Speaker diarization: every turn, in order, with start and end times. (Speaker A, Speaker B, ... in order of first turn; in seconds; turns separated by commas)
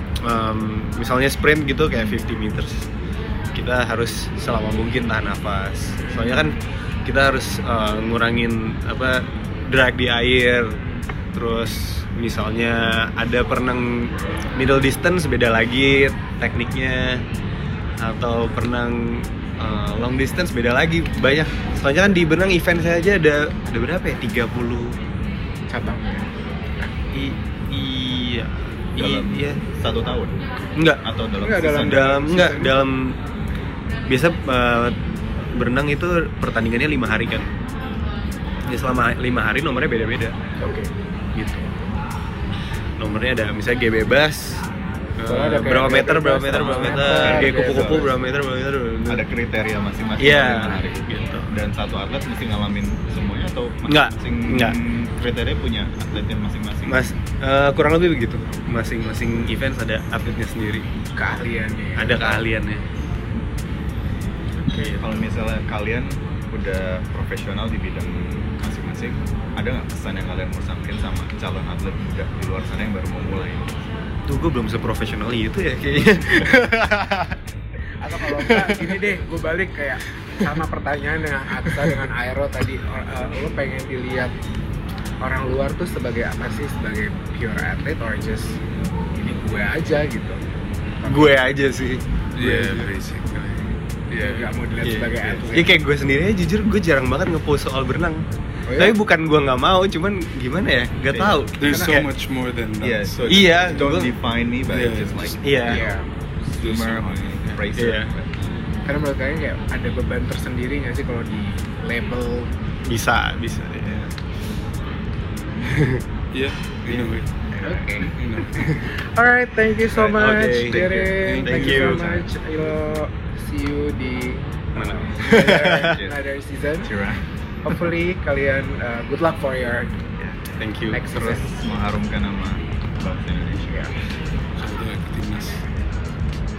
Speaker A: 0.2-2.9, Speaker A: 3.5-10.8, Speaker A: 11.3-17.2, Speaker A: 18.0-24.9, Speaker B: 25.7-26.9, Speaker A: 27.1-29.6, Speaker C: 29.0-30.3, Speaker A: 30.8-31.0, Speaker C: 31.0-32.1, Speaker B: 31.4-32.9, Speaker A: 31.8-33.1, Speaker A: 34.1-35.0, Speaker A: 35.5-37.5, Speaker A: 38.7-40.4, Speaker B: 40.6-40.9, Speaker A: 41.3-41.7, Speaker A: 43.0-44.6, Speaker A: 45.2-49.2, Speaker B: 45.3-48.1, Speaker C: 47.0-48.1, Speaker C: 49.0-57.0, Speaker A: 50.2-51.5, Speaker A: 53.9-54.8, Speaker A: 56.9-60.9, Speaker B: 61.1-62.4, Speaker A: 62.0-62.8, Speaker A: 64.6-65.3, Speaker C: 64.9-73.8, Speaker A: 74.3-77.4, Speaker B: 78.0-84.3, Speaker A: 78.3-79.0, Speaker A: 81.6-82.0, Speaker B: 85.2-88.6, Speaker B: 89.2-90.4, Speaker B: 91.0-91.4, Speaker A: 91.1-92.8, Speaker D: 92.3-94.5, Speaker B: 94.2-95.8, Speaker A: 94.8-98.2, Speaker B: 98.7-99.0, Speaker A: 98.8-102.1, Speaker C: 101.1-101.4, Speaker D: 101.6-103.8, Speaker C: 102.8-105.8, Speaker A: 103.3-104.1, Speaker D: 104.7-105.8, Speaker A: 105.4-105.8, Speaker B: 105.7-106.0, Speaker D: 106.4-107.6, Speaker C: 106.6-108.4, Speaker A: 107.8-108.1, Speaker B: 108.8-112.5, Speaker A: 112.8-114.1, Speaker A: 115.6-116.0, Speaker D: 116.3-117.2, Speaker A: 116.9-118.8, Speaker B: 117.6-118.1, Speaker D: 118.1-118.6, Speaker B: 118.9-126.9, Speaker A: 119.9-122.2, Speaker C: 120.8-121.1, Speaker D: 121.2-121.9, Speaker A: 124.8-126.0, Speaker C: 125.6-126.1, Speaker C: 126.8-127.2, Speaker B: 127.6-129.9, Speaker A: 130.2-131.4, Speaker B: 130.9-131.5, Speaker C: 131.3-133.9, Speaker D: 134.6-135.6